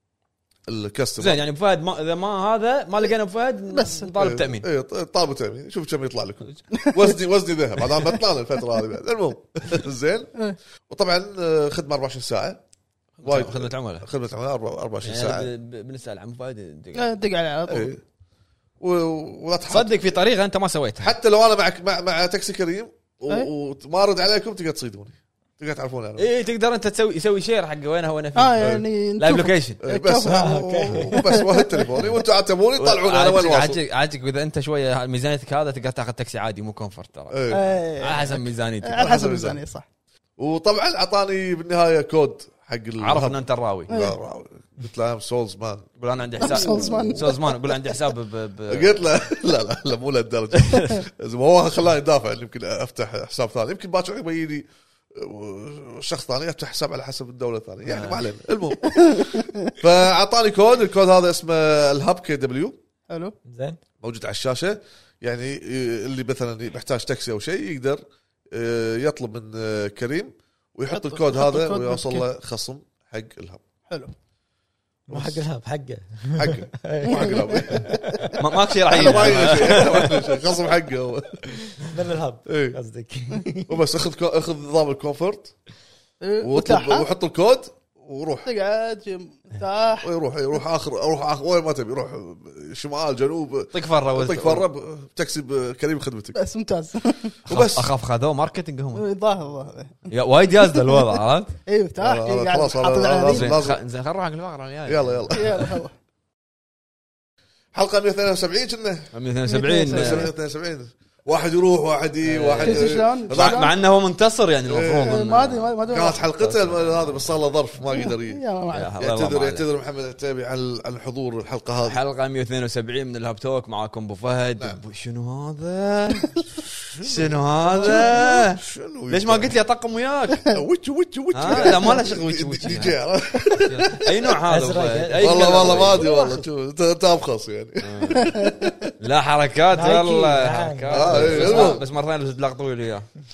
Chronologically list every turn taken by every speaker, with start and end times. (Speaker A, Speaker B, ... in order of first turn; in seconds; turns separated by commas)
Speaker A: 0.7-1.4, Speaker B: 1.2-4.7, Speaker C: 3.7-4.1, Speaker A: 4.2-10.3, Speaker A: 10.9-12.6, Speaker B: 13.2-14.1, Speaker A: 13.2-15.5, Speaker B: 15.0-17.2, Speaker C: 16.9-17.9, Speaker A: 17.7-18.0, Speaker A: 18.8-20.2, Speaker B: 19.7-21.1, Speaker A: 21.0-26.3, Speaker B: 26.2-29.8, Speaker C: 28.4-31.9, Speaker A: 28.6-28.8, Speaker A: 29.8-33.8, Speaker D: 30.3-31.1, Speaker B: 32.8-39.0, Speaker A: 37.3-37.6, Speaker C: 37.5-39.8, Speaker A: 39.0-39.6, Speaker A: 40.4-47.3, Speaker B: 43.0-44.0, Speaker C: 43.9-44.1, Speaker B: 46.0-49.0, Speaker C: 46.4-47.8, Speaker A: 48.7-62.8, Speaker B: 50.5-51.0, Speaker B: 57.9-58.2, Speaker C: 58.9-59.7, Speaker C: 63.1-63.3, Speaker D: 63.5-63.8, Speaker A: 64.0-73.6, Speaker C: 70.9-72.2, Speaker C: 73.9-74.1, Speaker A: 75.1-75.4, Speaker D: 75.1-77.4, Speaker A: 76.3-78.3, Speaker C: 77.0-78.4, Speaker B: 78.4-80.2, Speaker A: 78.8-81.7, Speaker C: 78.9-79.3, Speaker D: 81.8-83.7, Speaker A: 82.5-82.8, Speaker A: 83.7-85.5, Speaker C: 86.2-87.1, Speaker A: 86.4-88.5, Speaker C: 88.4-90.1, Speaker A: 90.0-96.4, Speaker B: 93.7-94.7, Speaker C: 96.3-97.3, Speaker A: 97.5-97.9, Speaker B: 97.5-99.0, Speaker C: 99.0-100.1, Speaker B: 100.1-101.5, Speaker C: 100.6-101.0, Speaker C: 101.7-103.5, Speaker A: 102.0-103.8, Speaker B: 103.2-105.7, Speaker A: 104.8-105.7, Speaker C: 105.3-105.9, Speaker A: 107.7-109.1, Speaker B: 109.1-110.3, Speaker C: 109.5-110.3, Speaker A: 109.9-113.7, Speaker B: 112.2-117.1, Speaker C: 112.6-113.7, Speaker A: 114.7-115.2, Speaker C: 115.1-116.2, Speaker A: 115.8-118.4, Speaker C: 117.9-118.9, Speaker B: 118.7-119.7, Speaker A: 119.0-122.0, Speaker B: 121.8-126.3, Speaker A: 124.6-124.8, Speaker A: 126.5-129.5, Speaker B: 127.0-130.5, Speaker A: 130.5-134.3, Speaker B: 131.3-136.0, Speaker D: 134.5-136.4, Speaker A: 135.2-138.9, Speaker B: 137.8-138.3, Speaker C: 138.2-138.6, Speaker B: 139.0-143.1, Speaker D: 139.7-141.7, Speaker A: 140.9-141.8